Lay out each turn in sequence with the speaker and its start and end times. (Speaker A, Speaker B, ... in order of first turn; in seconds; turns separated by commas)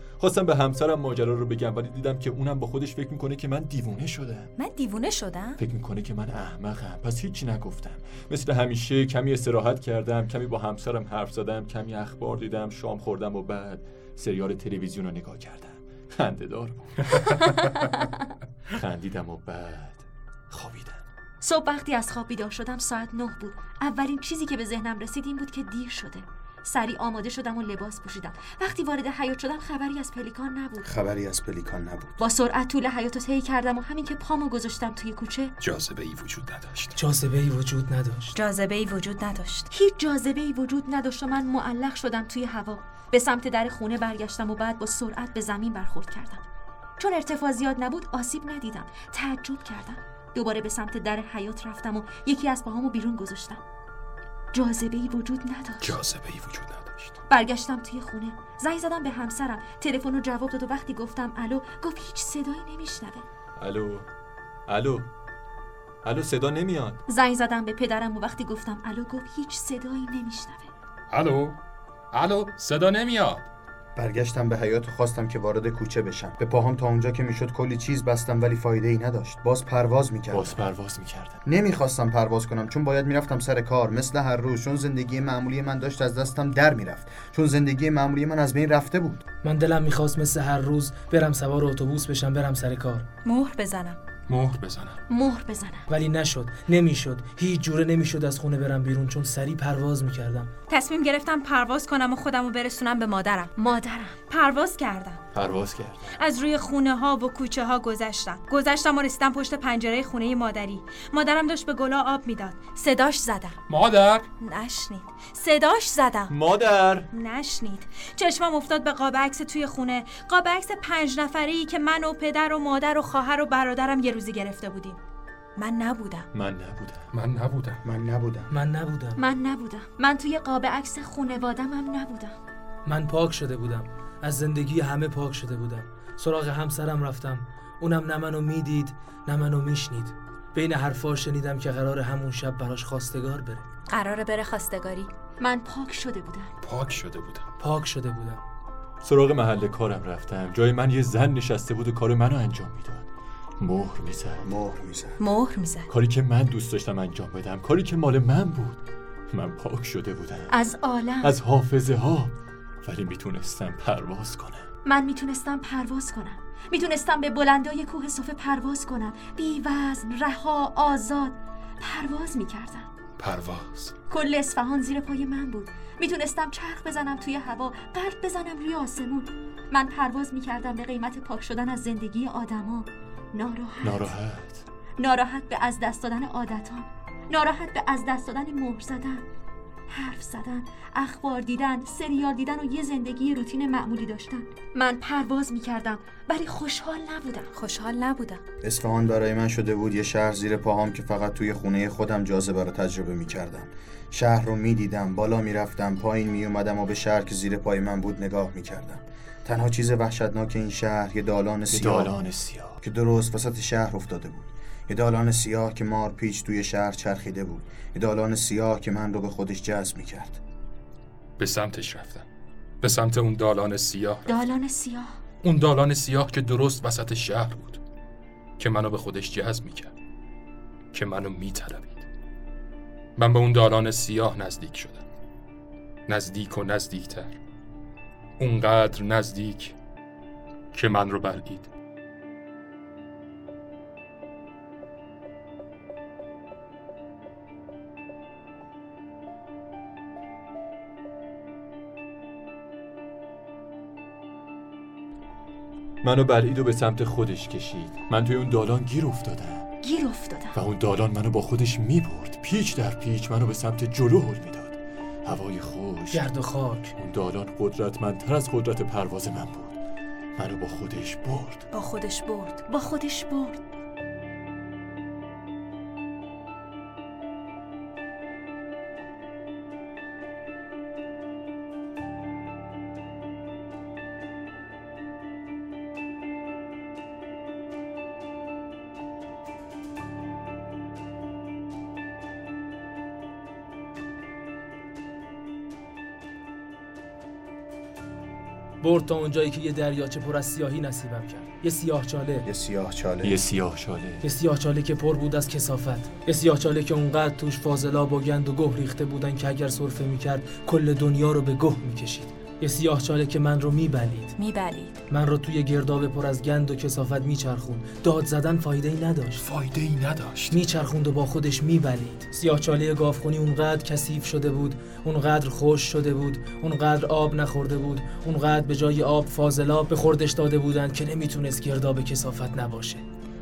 Speaker A: 0.2-4.5, Speaker B: 4.6-5.6, Speaker A: 5.6-17.0, Speaker C: 17.1-18.1, Speaker A: 18.8-21.0, Speaker C: 21.4-30.9, Speaker D: 30.8-32.2, Speaker C: 32.2-35.5, Speaker E: 35.6-36.9, Speaker F: 37.0-38.3, Speaker B: 38.4-39.7, Speaker C: 39.7-46.4, Speaker C: 47.0-53.6, Speaker C: 54.5-56.0, Speaker E: 55.8-57.2, Speaker C: 57.3-63.2, Speaker A: 63.6-64.1, Speaker A: 64.7-65.1, Speaker A: 66.0-67.0, Speaker C: 67.1-70.7, Speaker E: 71.1-71.6, Speaker E: 72.1-73.5, Speaker D: 74.0-80.6, Speaker A: 80.3-81.4, Speaker D: 81.5-89.2, Speaker F: 89.4-93.1, Speaker B: 93.2-94.0, Speaker E: 94.3-95.0, Speaker C: 95.1-95.9, Speaker F: 95.9-100.5, Speaker B: 100.7-103.5, Speaker C: 103.6-104.2, Speaker B: 104.3-105.2, Speaker A: 105.3-106.1, Speaker B: 106.2-113.6, Speaker E: 113.7-114.3, Speaker B: 114.4-116.4, Speaker A: 116.3-117.1, Speaker B: 117.1-125.0, Speaker B: 125.6-126.3, Speaker A: 126.3-127.1, Speaker E: 127.1-127.8, Speaker D: 127.8-128.5, Speaker F: 128.5-129.2, Speaker C: 129.2-132.4, Speaker F: 132.8-143.7, Speaker B: 143.9-145.1, Speaker C: 145.4-146.5, Speaker E: 146.6-147.5, Speaker F: 147.6-148.4, Speaker A: 149.0-153.1, Speaker A: 153.6-154.5, Speaker D: 154.4-155.2, Speaker B: 155.2-155.9, Speaker A: 155.9-160.6, Speaker C: 160.5-161.4, Speaker A: 161.2-164.7, Speaker C: 164.9-172.9, Speaker E: 173.2-173.9, Speaker C: 174.1-184.2, Speaker A: 183.8-184.6, Speaker C: 185.0-189.2, Speaker C: 189.9-197.5, Speaker B: 197.5-198.4, Speaker D: 198.6-212.2, Speaker A: 211.7-212.8, Speaker D: 212.8-220.4, Speaker E: 221.4-222.3, Speaker E: 222.8-224.4, Speaker C: 224.3-225.2, Speaker E: 225.4-227.8, Speaker E: 228.6-229.9, Speaker E: 230.9-232.1, Speaker E: 233.2-235.1, Speaker E: 236.1-237.4, Speaker E: 238.4-239.8, Speaker E: 240.7-241.7, Speaker A: 256.0-259.7, Speaker C: 259.8-260.6, Speaker A: 260.6-266.2, Speaker F: 266.1-267.0, Speaker A: 267.0-269.8, Speaker A: 270.4-271.7, Speaker B: 271.7-272.7, Speaker C: 272.7-273.6, Speaker F: 298.8-302.5, Speaker D: 302.5-303.4, Speaker A: 303.2-304.2, Speaker F: 304.2-314.3, Speaker B: 314.4-314.9, Speaker F: 315.1-319.5, Speaker E: 319.4-320.6, Speaker F: 320.5-333.0